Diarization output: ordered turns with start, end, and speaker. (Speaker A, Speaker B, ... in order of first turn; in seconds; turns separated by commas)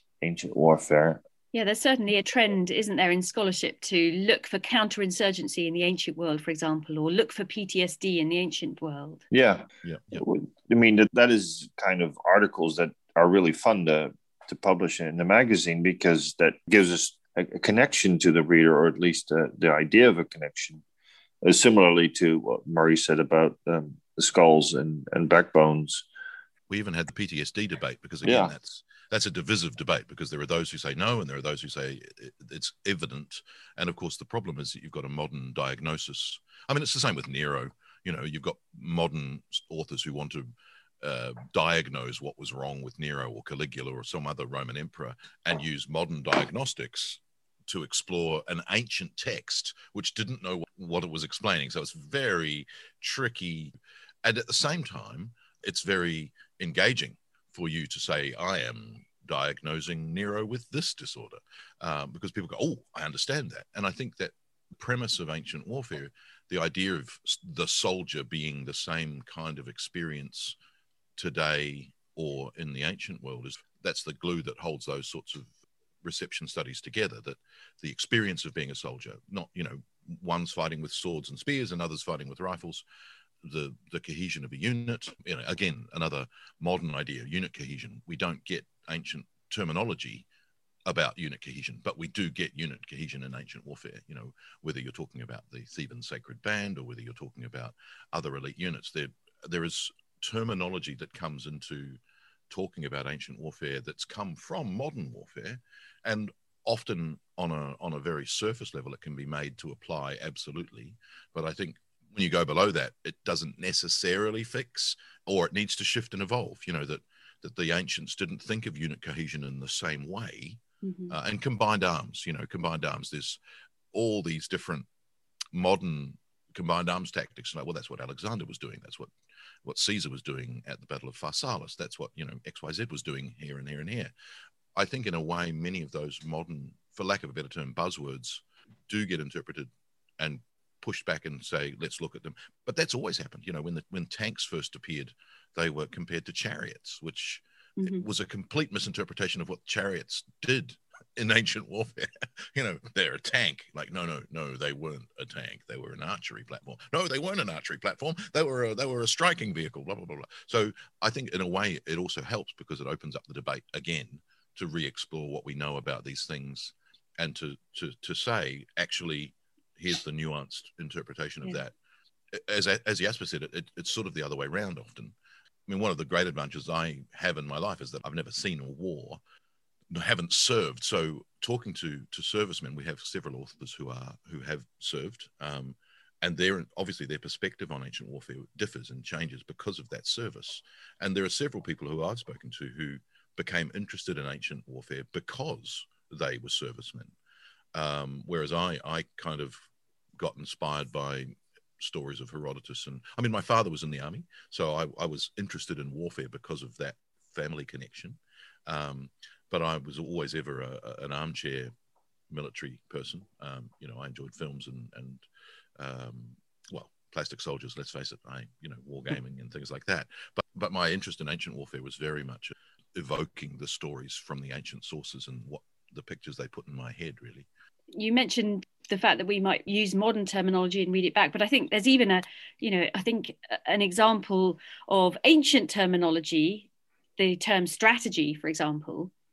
Speaker A: 0.2-1.2, Speaker B: 1.5-9.2, Speaker A: 9.3-20.8, Speaker C: 9.8-10.2, Speaker A: 21.4-26.1, Speaker C: 26.7-40.5, Speaker A: 28.2-28.5, Speaker C: 41.0-70.5, Speaker C: 71.2-75.5, Speaker C: 76.0-82.8, Speaker C: 83.4-90.2, Speaker C: 90.8-102.0, Speaker C: 102.5-120.6, Speaker B: 120.8-121.1, Speaker C: 121.1-123.4, Speaker C: 123.9-124.8, Speaker C: 125.5-129.1, Speaker C: 129.6-134.1, Speaker C: 134.7-171.7, Speaker B: 147.8-148.0, Speaker C: 172.3-175.1, Speaker C: 175.7-179.2, Speaker C: 179.9-197.1, Speaker C: 197.7-199.6, Speaker C: 200.2-211.7, Speaker C: 212.3-215.2, Speaker C: 215.8-227.4, Speaker B: 227.9-239.1